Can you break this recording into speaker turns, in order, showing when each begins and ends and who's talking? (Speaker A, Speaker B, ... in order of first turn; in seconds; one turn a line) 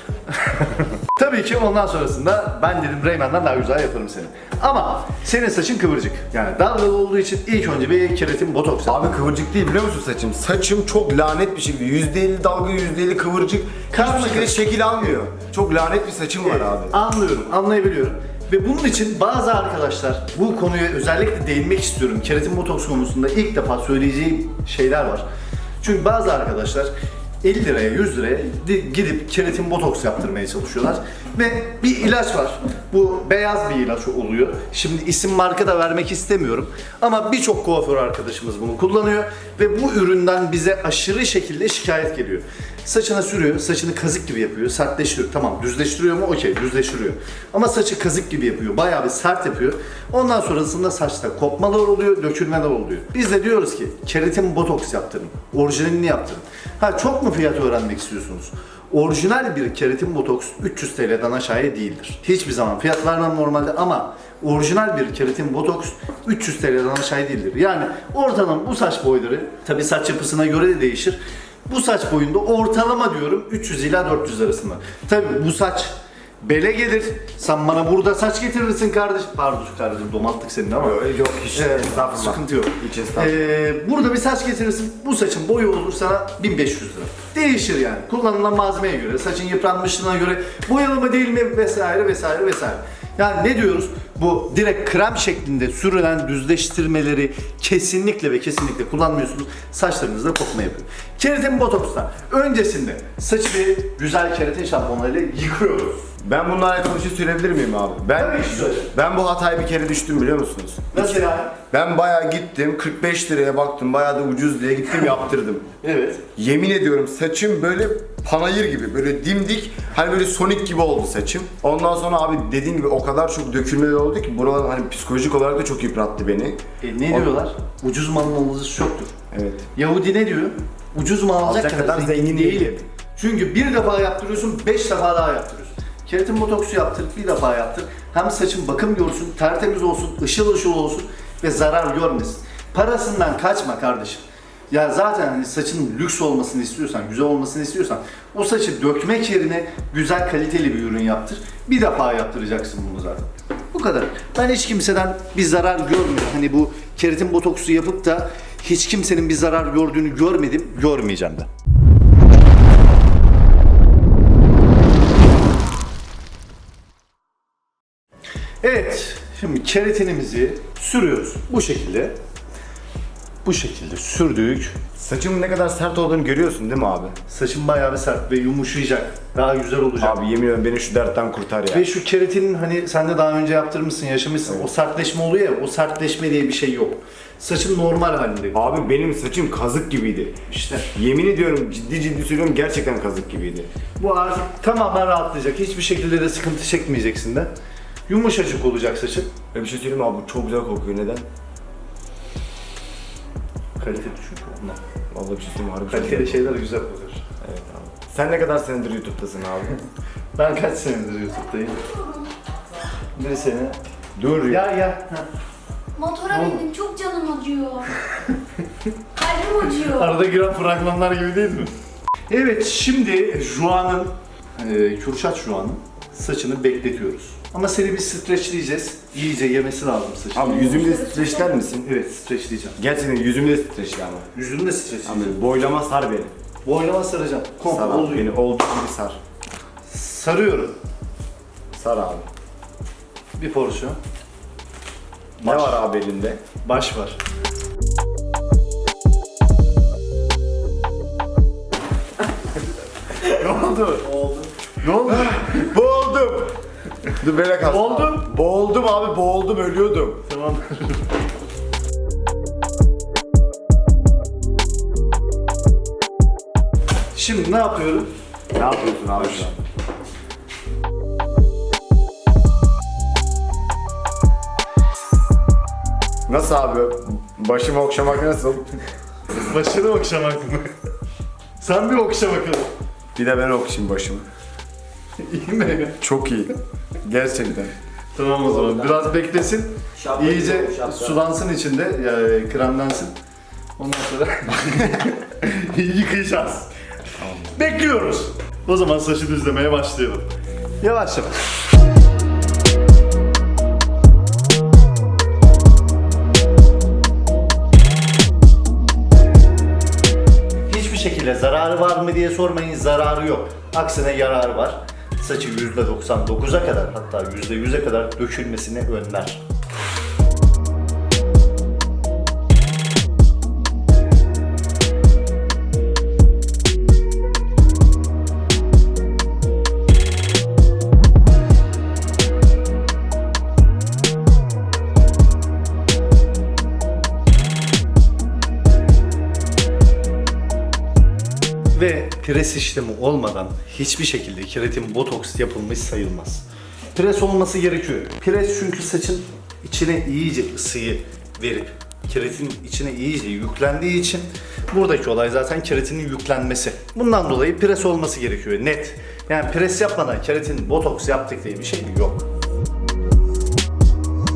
Speaker A: 0.3-9.2
Speaker B: 8.8-17.0
Speaker A: 13.9-14.7
Speaker A: 16.4-25.2
Speaker A: 25.8-26.9
Speaker A: 27.4-106.1
Speaker B: 80.8-83.5
Speaker B: 106.2-115.7
Speaker A: 108.2-108.9
Speaker A: 110.9-111.6
Speaker A: 115.8-116.2
Speaker B: 116.3-126.6
Speaker A: 126.8-129.1
Speaker B: 129.3-129.6
Speaker A: 129.7-161.5
Speaker B: 131.4-132.8
Speaker A: 168.6-172.1
Speaker A: 173.4-174.8
Speaker B: 175.0-177.1
Speaker A: 177.3-180.2
Speaker B: 180.0-181.9
Speaker A: 181.7-188.6
Speaker B: 188.5-190.3
Speaker A: 190.5-190.9
Speaker B: 190.9-193.7
Speaker A: 194.0-197.5
Speaker A: 198.1-199.3
Speaker B: 199.5-201.2
Speaker A: 203.8-204.8
Speaker B: 205.1-206.6
Speaker A: 205.9-207.2
Speaker B: 207.4-209.8
Speaker A: 210.3-211.9
Speaker C: 211.9-212.3
Speaker A: 213.2-213.8
Speaker B: 214.2-214.6
Speaker A: 214.5-215.2
Speaker C: 215.9-217.9
Speaker A: 216.3-216.7
Speaker A: 218.1-218.3
Speaker C: 219.2-220.1
Speaker A: 219.7-221.7
Speaker A: 222.3-230.7
Speaker B: 230.3-231.9
Speaker C: 230.4-231.5
Speaker A: 231.8-232.8
Speaker B: 232.8-234.3
Speaker A: 234.3-235.4
Speaker B: 235.1-236.3
Speaker A: 236.6-238.3
Speaker B: 237.7-239.2
Speaker A: 239.9-240.8
Speaker B: 241.7-242.3
Speaker A: 243.4-244.0
Speaker A: 245.4-245.8
Speaker B: 245.4-246.4
Speaker A: 246.6-247.2
Speaker A: 253.1-255.7
Speaker B: 255.1-256.6
Speaker B: 257.2-260.2
Speaker A: 257.6-258.3
Speaker A: 260.3-261.0
Speaker A: 267.1-268.1
Speaker B: 268.5-269.6
Speaker B: 276.3-278.7
Speaker A: 279.3-280.7
Speaker A: 281.6-282.7
Speaker B: 283.1-284.2
Speaker A: 285.2-286.0
Speaker B: 286.0-287.7
Speaker A: 288.1-293.1
Speaker B: 288.4-289.1
Speaker B: 289.9-291.2
Speaker A: 293.8-296.7
Speaker B: 297.2-297.5
Speaker A: 297.5-301.4
Speaker A: 310.7-319.4
Speaker A: 341.7-362.2